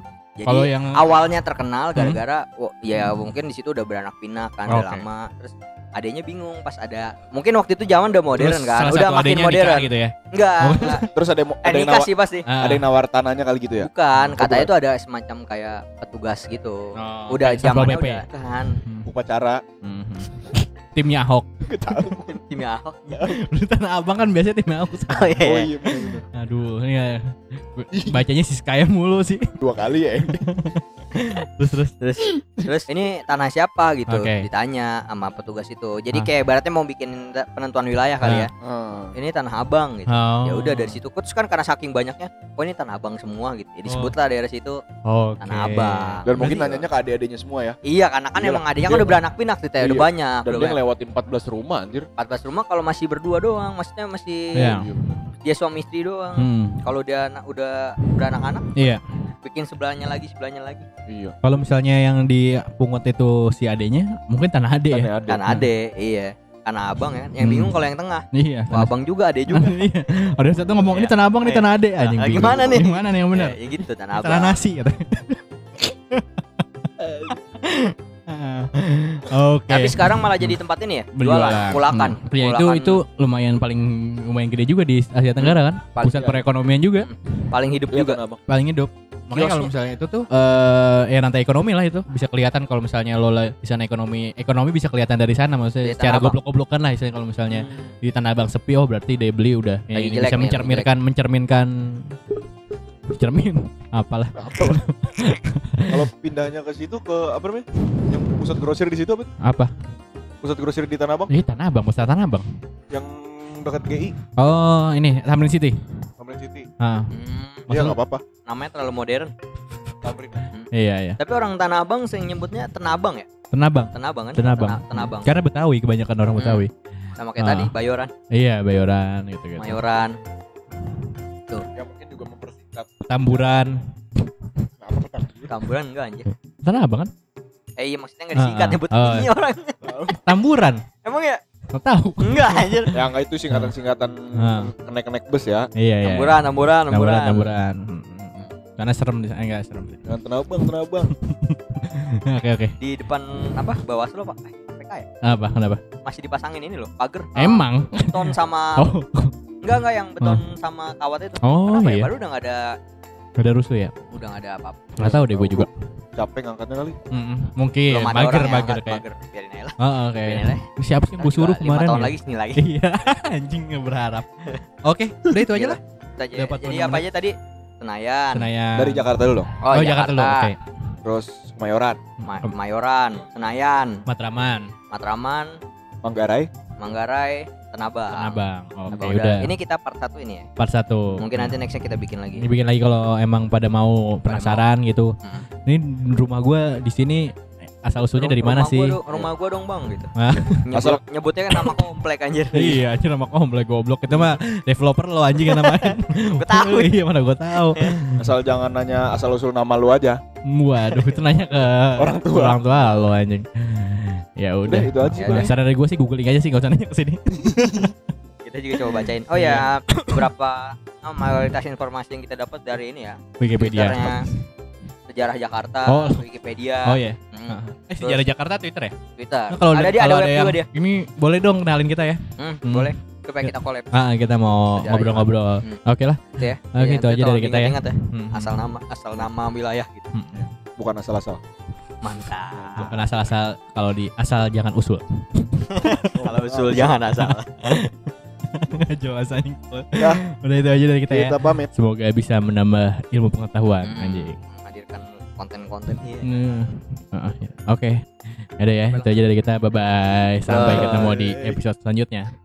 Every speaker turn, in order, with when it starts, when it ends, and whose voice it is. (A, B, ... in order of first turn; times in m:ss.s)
0:00.4-0:11.0 A
0:00.5-0:01.1 B
0:04.7-0:05.0 B
0:08.4-0:11.1 B
0:11.1-0:14.7 C
0:11.6-0:12.5 A
0:12.5-0:12.9 B
0:13.8-0:18.8 A
0:17.0-0:18.2 B
0:19.0-0:19.6 C
0:19.8-0:21.5 B
0:21.7-0:22.4 C
0:22.1-0:23.4 A
0:23.3-0:25.6 B
0:25.1-0:25.7 A
0:25.4-0:26.2 C
0:26.3-0:29.6 B
0:27.9-0:28.2 C
0:29.6-0:30.5 C
0:30.4-0:31.9 B
0:32.0-0:38.5 A
0:34.1-0:34.5 B
0:38.2-0:38.5 B
0:38.6-0:39.2 C
0:39.2-0:44.8 A
0:40.1-0:41.0 B
0:43.9-0:44.1 B
0:45.1-0:46.7 B
0:45.4-0:46.8 A
0:46.3-0:47.8 C
0:47.8-0:50.8 A
0:48.4-0:49.2 C
0:49.8-0:52.1 C
0:52.2-0:54.8 A
0:54.6-0:55.1 B
0:54.6-0:55.0 C
0:55.4-0:58.8 A
0:56.4-0:56.8 B
0:58.8-0:59.0 B
0:59.4-1:00.9 A
1:01.1-1:01.4 C
1:01.4-1:05.7 B
1:04.9-1:05.4 C
1:05.3-1:09.8 A
1:07.4-1:07.8 B
1:08.3-1:08.9 B
1:09.5-1:13.6 B
1:10.9-1:14.6 A
1:14.2-1:16.3 B
1:17.3-1:20.6 B
1:19.7-1:23.0 A
1:21.2-1:27.1 B
1:25.4-1:26.3 A
1:26.2-1:26.4 C
1:27.0-1:28.2 A
1:27.9-1:28.4 C
1:28.5-1:42.2 B
1:29.3-1:29.7 A
1:35.8-1:36.4 A
1:37.5-1:37.9 A
1:39.9-1:40.9 A
1:43.1-1:46.0 B
1:44.4-1:44.8 C
1:45.9-1:49.3 C
1:49.4-1:49.7 B
1:50.4-1:51.3 C
1:51.3-1:52.5 B
1:52.9-1:54.2 C
1:54.4-1:55.8 B
1:56.2-1:56.7 C
1:56.8-1:57.1 B
1:57.1-1:57.7 A
1:57.7-1:58.0 B
1:57.7-1:58.2 C
1:58.5-1:59.3 A
2:00.0-2:00.5 C
2:00.5-2:03.3 A
2:00.7-2:01.2 B
2:03.5-2:06.7 B
2:03.9-2:05.4 A
2:06.3-2:06.6 A
2:07.2-2:08.1 A
2:07.4-2:07.7 B
2:08.3-2:09.8 B
2:09.6-2:10.2 A
2:11.7-2:13.4 C
2:13.1-2:13.8 B
2:14.8-2:15.6 C
2:15.5-2:16.3 A
2:16.6-2:17.1 B
2:17.8-2:19.8 A
2:18.4-2:19.3 B
2:19.8-2:20.2 C
2:20.1-2:20.8 B
2:21.0-2:21.4 A
2:21.7-2:23.0 B
2:22.2-2:23.0 A
2:22.9-2:25.7 C
2:24.4-2:24.7 B
2:25.8-2:30.0 B
2:26.0-2:27.5 A
2:30.1-2:31.1 C
2:31.1-2:32.7 B
2:32.8-2:35.1 A
2:35.2-2:35.8 B
2:36.0-2:38.9 A
2:37.4-2:39.3 B
2:39.6-2:42.6 A
2:41.4-2:42.1 B
2:43.4-2:43.9 B
2:44.1-2:45.2 A
2:45.0-2:45.7 B
2:45.0-2:47.0 C
2:47.1-2:49.0 B
2:47.9-2:50.6 A
2:49.8-2:54.3 B
2:51.2-2:52.6 A
2:54.8-2:55.8 B
2:55.4-2:58.5 A
2:56.4-2:57.1 B
2:58.3-3:00.6 B
2:58.8-2:59.5 C
2:59.6-3:00.5 A
3:01.0-3:02.0 C
3:02.2-3:04.0 A
3:04.1-3:04.7 B
3:04.9-3:05.6 A
3:06.0-3:06.5 C
3:06.8-3:08.4 A
3:08.1-3:09.5 B
3:08.9-3:10.5 A
3:10.6-3:11.5 B
3:11.2-3:12.4 A
3:12.4-3:15.2 B
3:14.3-3:14.6 A
3:15.7-3:17.3 B
3:17.8-3:19.0 B
3:18.2-3:20.1 A
3:20.2-3:20.7 B
3:20.6-3:22.8 A
3:20.7-3:21.0 C
3:21.5-3:21.8 B
3:22.5-3:28.3 B
3:24.1-3:24.4 A
3:25.4-3:26.9 A
3:27.6-3:27.9 A
3:28.2-3:30.2 C
3:30.5-3:37.9 B
3:32.0-3:32.7 C
3:34.7-3:35.5 C
3:35.2-3:35.5 A
3:38.4-3:44.3 A
3:38.9-3:40.3 B
3:43.4-3:44.4 B
3:45.1-3:48.2 A
3:45.9-3:46.2 B
3:46.8-3:49.0 B
3:49.2-3:50.7 A
3:49.5-3:52.9 B
3:52.4-3:53.9 A
3:53.4-3:58.6 B
3:54.6-3:55.8 A
3:56.4-4:00.1 A
4:00.1-4:00.5 B
4:00.8-4:01.4 C
4:02.0-4:02.9 A
4:02.6-4:03.1 C
4:02.8-4:06.2 B
4:05.7-4:07.9 A
4:06.2-4:07.0 C
4:08.5-4:14.4 B
4:10.0-4:10.2 C
4:11.1-4:11.7 C
4:13.8-4:16.3 A
4:16.2-4:22.3 B
4:18.9-4:19.2 A
4:20.5-4:21.1 A
4:20.5-4:21.6 C